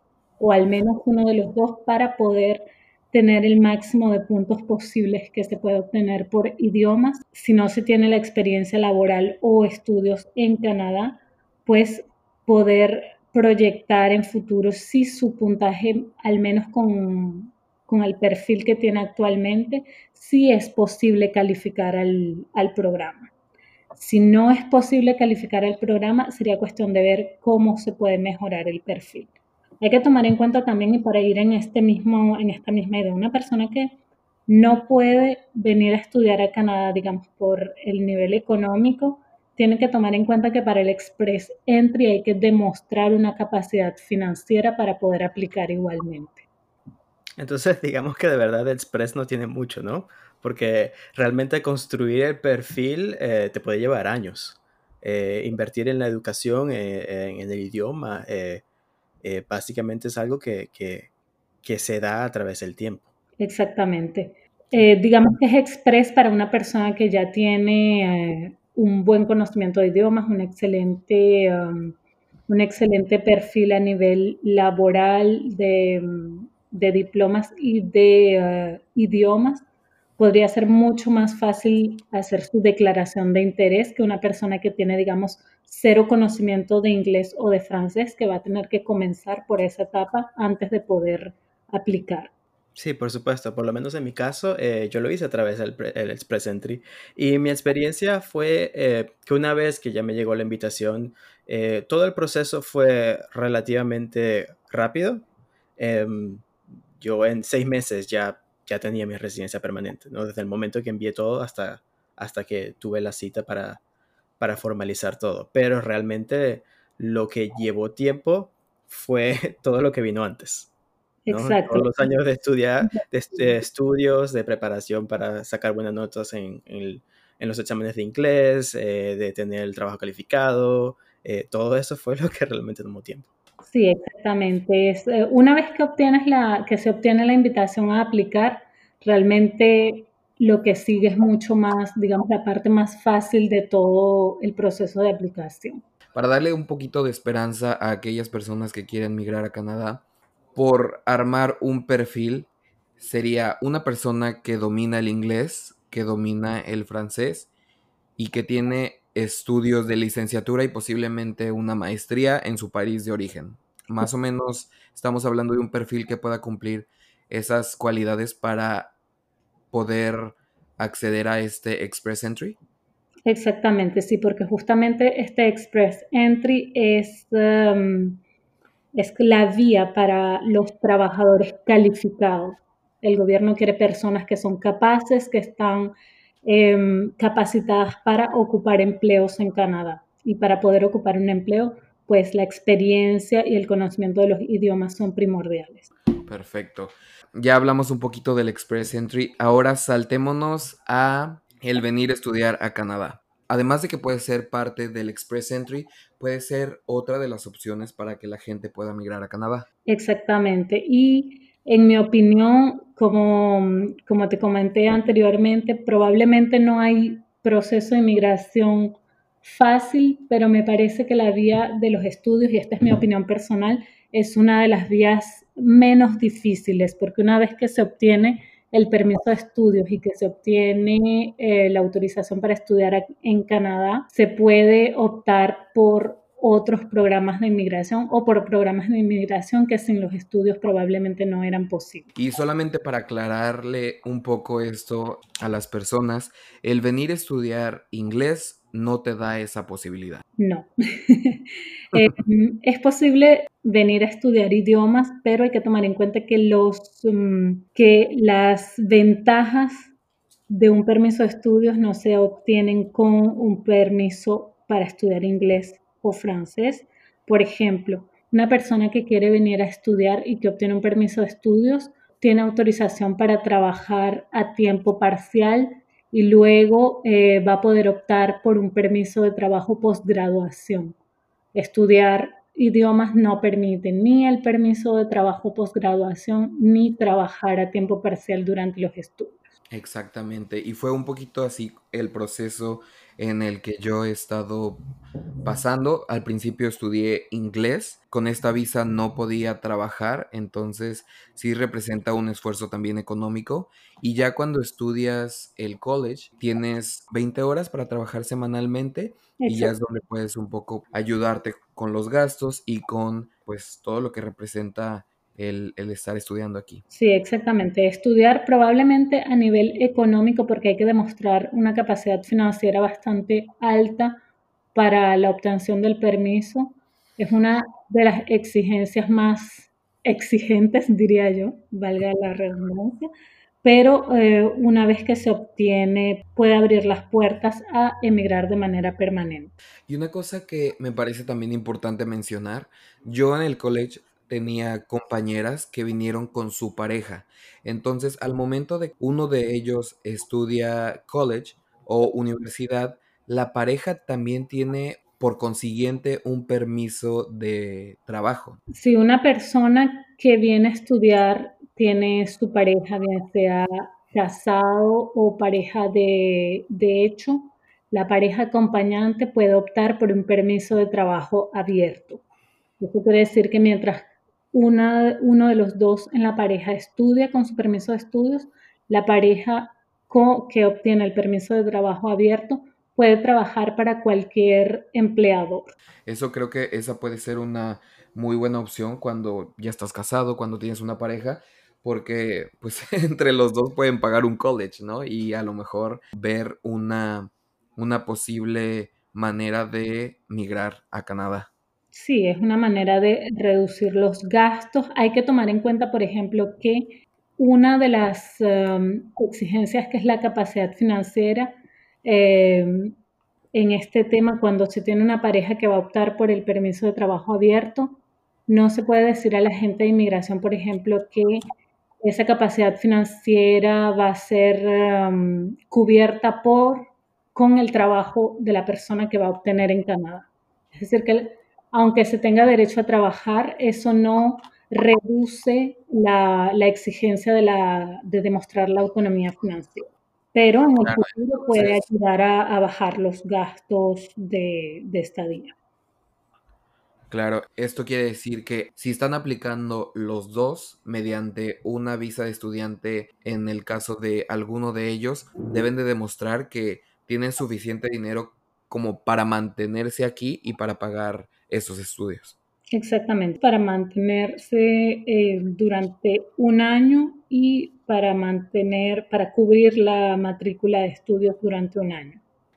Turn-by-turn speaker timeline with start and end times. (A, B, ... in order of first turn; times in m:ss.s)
0:00.4-0:23.3 A
0:24.0-0:34.0 A
0:34.5-0:46.5 A
0:47.4-0:58.6 B
0:59.2-1:01.1 B
1:01.6-1:03.1 B
1:03.4-1:12.0 A
1:12.5-1:19.6 A
1:20.2-1:32.3 A
1:32.8-1:45.2 B
1:45.8-1:53.8 B
1:54.4-2:00.7 B
2:01.2-2:02.1 A
2:01.3-2:13.3 B
2:13.7-2:25.8 A
2:26.2-2:30.0 C
2:30.6-2:37.5 C
2:38.2-2:48.9 C
2:49.7-2:52.6 C
2:53.2-2:58.2 A
2:59.0-3:05.9 A
3:06.4-3:15.9 A
3:16.3-3:29.7 C
3:29.9-4:02.1 A
4:02.2-4:10.2 C
4:10.4-4:19.9 A
4:20.5-4:41.0 A
4:41.6-4:49.4 A
4:49.7-4:54.8 C
4:55.4-5:16.8 C
5:09.4-5:09.8 A
5:16.9-5:24.2 A
5:24.8-5:33.1 A
5:33.6-5:39.5 A
5:39.9-5:58.6 C
5:58.7-6:12.2 A
6:12.8-6:25.7 A
6:26.1-6:41.5 C
6:41.9-6:53.0 A
6:53.6-7:01.4 A
7:02.0-7:25.6 A
7:20.8-7:21.8 C
7:27.1-7:42.4 C
7:42.7-7:52.2 A